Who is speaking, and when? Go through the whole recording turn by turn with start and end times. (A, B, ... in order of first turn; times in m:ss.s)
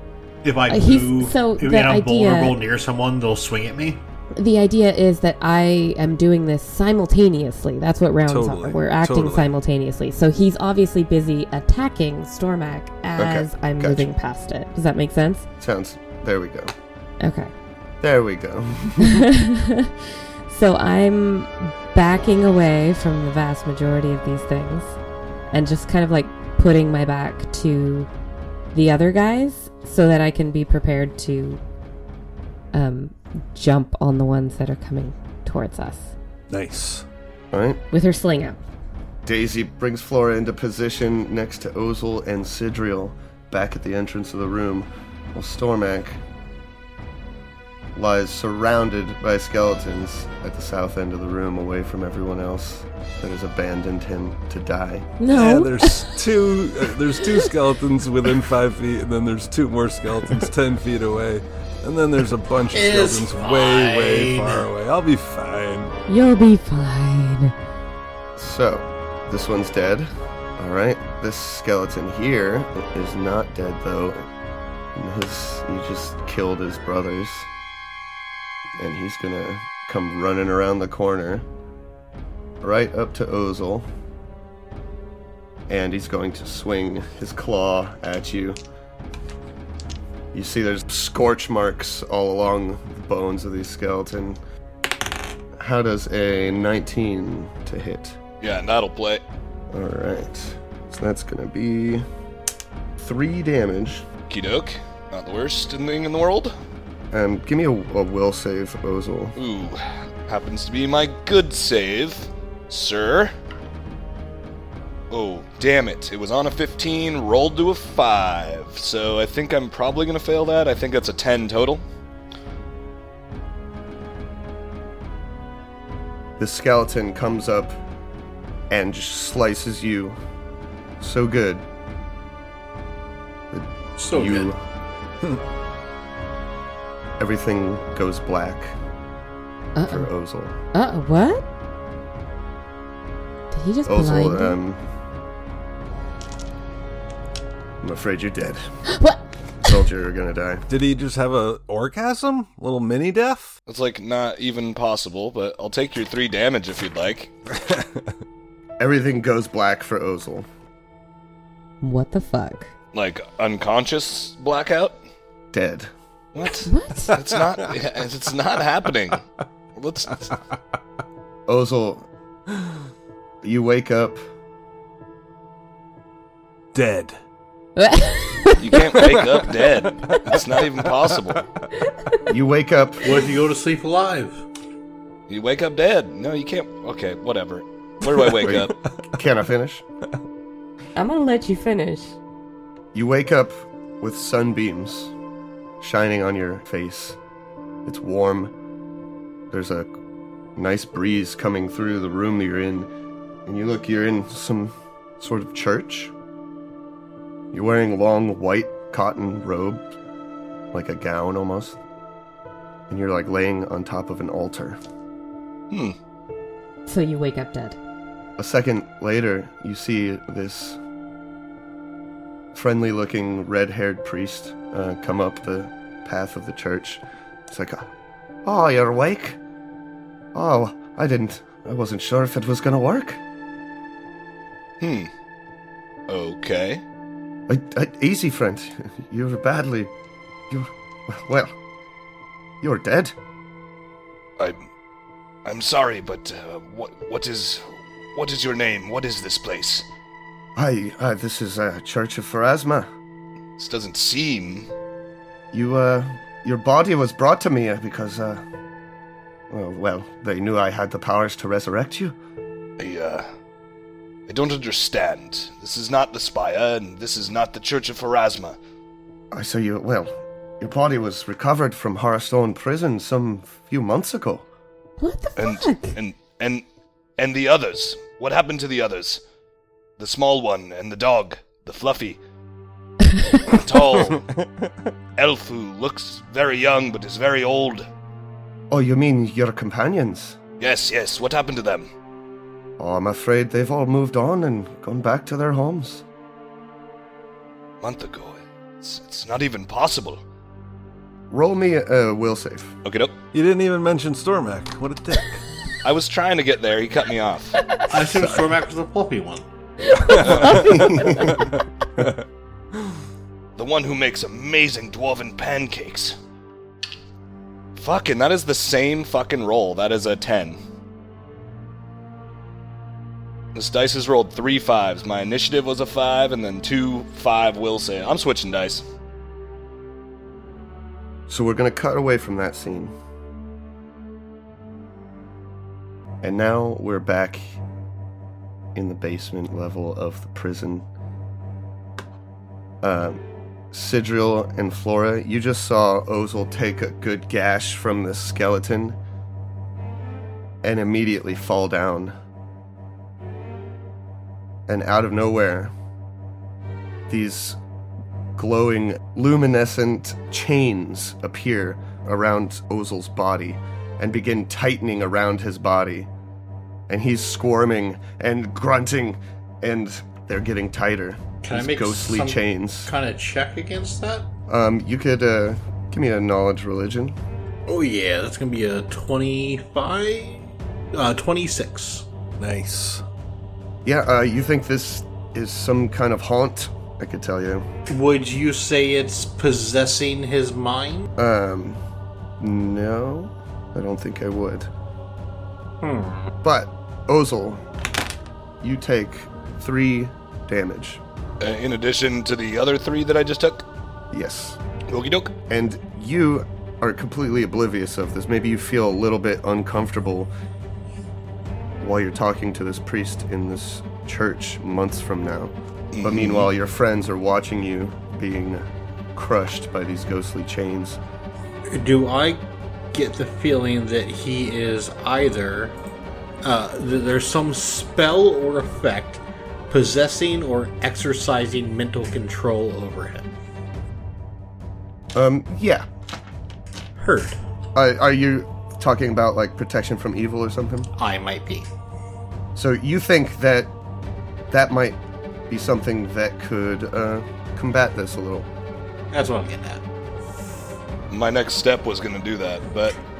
0:00.4-0:04.0 A
0:00.7-0:02.6 B
0:04.3-0:15.4 B
0:08.2-0:09.5 C
0:13.2-0:14.1 D
0:15.6-0:16.7 D
0:17.2-0:17.5 B
0:18.0-0:19.2 D
0:19.0-0:19.9 B
0:20.5-0:25.0 B
0:25.5-0:28.1 B
0:28.7-0:31.6 B
0:32.7-0:36.1 B
0:36.5-0:37.0 C
0:37.5-0:37.8 D
0:37.9-0:38.6 B
0:39.2-0:46.2 D
0:47.9-0:55.1 D
0:55.2-0:56.2 B
0:55.3-1:05.9 C
0:57.2-0:57.5 B
1:02.7-1:04.7 A
1:06.1-1:07.5 B
1:08.4-1:14.3 D
1:14.9-1:17.5 D
1:18.8-1:21.4 D
1:22.6-1:23.9 D
1:25.7-1:28.6 D
1:30.3-1:34.4 D
1:35.6-1:38.2 D
1:38.4-1:39.2 E
1:39.7-1:42.0 D
1:43.0-1:44.1 D
1:44.3-1:46.5 E
1:47.1-1:49.4 D
1:49.4-1:53.3 E
1:55.1-2:01.8 E
2:06.4-2:07.8 D
2:08.7-2:10.2 D
2:11.0-2:11.6 D
2:13.5-2:14.6 D
2:14.0-2:14.5 A
2:17.2-2:18.8 D
2:19.7-2:20.1 B
2:19.8-2:20.5 D
2:20.7-2:21.4 B
2:23.5-2:24.6 B
2:23.8-2:24.8 D
2:27.8-2:28.7 D
2:28.9-2:29.7 B
2:29.6-2:30.6 D
2:30.7-2:33.5 C
2:33.7-2:37.3 E
2:37.5-2:38.2 C
2:38.8-2:40.5 D
2:41.8-2:42.7 B
2:42.9-2:45.0 E
2:45.5-2:45.9 D
2:46.3-2:49.2 E
2:46.6-2:47.1 B
2:49.8-2:50.4 E
2:51.5-2:52.1 D
2:53.4-2:54.2 D
2:56.7-2:57.2 C
2:57.8-2:59.0 B
2:58.6-3:01.4 E
2:59.0-3:01.6 C
3:02.0-3:02.2 B
3:02.3-3:03.1 D
3:03.0-3:04.4 A
3:05.3-3:08.7 E
3:08.4-3:09.8 D
3:11.0-3:12.2 B
3:12.9-3:15.1 D
3:15.8-3:17.2 D
3:17.8-3:18.5 D
3:19.5-3:19.9 D
3:20.6-3:22.9 D
3:23.4-3:26.1 D
3:27.5-3:29.9 D
3:30.7-3:31.8 D
3:32.9-3:34.8 D
3:35.7-3:36.0 E
3:36.9-3:37.8 B
3:38.4-3:40.8 D
3:42.5-3:47.9 D
3:48.4-3:49.4 D
3:50.3-3:53.2 D
3:54.8-3:55.1 E
3:56.1-3:56.8 E
3:57.5-3:59.9 D
4:00.5-4:01.6 D
4:02.6-4:03.2 D
4:04.4-4:04.6 E
4:05.4-4:09.8 E
4:10.6-4:12.9 D
4:13.6-4:14.7 E
4:15.5-4:18.4 D
4:19.5-4:22.2 D
4:22.8-4:23.2 E
4:24.3-4:28.6 E
4:29.3-4:34.5 D
4:35.0-4:35.9 B
4:35.4-4:36.6 E
4:37.2-4:39.2 E
4:40.0-4:42.2 E
4:43.5-4:44.2 E
4:44.1-4:44.7 C
4:45.2-4:47.8 E
4:48.7-4:50.4 D
4:50.6-4:51.9 E
4:52.8-4:56.0 D
4:57.8-5:00.2 E
5:01.3-5:02.7 D
5:02.8-5:03.2 E
5:03.3-5:05.4 C
5:05.8-5:07.6 E
5:07.9-5:09.4 A
5:09.9-5:11.3 B
5:10.1-5:12.2 C
5:10.2-5:11.1 E
5:13.6-5:16.1 E
5:17.8-5:20.6 E
5:23.5-5:28.8 E
5:31.3-5:32.9 D
5:36.2-5:37.6 D
5:38.7-5:40.8 D
5:42.8-5:49.0 D
5:50.6-5:52.1 D
5:54.7-5:55.7 D
5:57.1-5:57.6 D
5:58.4-6:06.1 D
6:06.9-6:12.9 D
6:11.4-6:14.3 A
6:14.5-6:17.2 D
6:17.7-6:22.0 A
6:22.4-6:23.0 C
6:23.8-6:27.7 D
6:27.9-6:31.1 A
6:31.2-6:31.8 D
6:32.4-6:34.7 D
6:35.8-6:36.3 A
6:36.4-6:37.6 D
6:38.6-6:41.0 D
6:41.4-6:43.6 E
6:44.1-6:44.6 D
6:44.9-6:45.3 E
6:45.5-6:50.3 D
6:51.8-7:01.0 D
6:55.9-6:56.5 E
7:01.7-7:05.8 A
7:06.4-7:13.3 A
7:15.1-7:15.8 D
7:17.0-7:17.4 A
7:17.7-7:20.9 D
7:21.0-7:21.7 A
7:22.5-7:23.7 D
7:24.5-7:28.5 D
7:29.1-7:29.8 A
7:31.1-7:33.0 E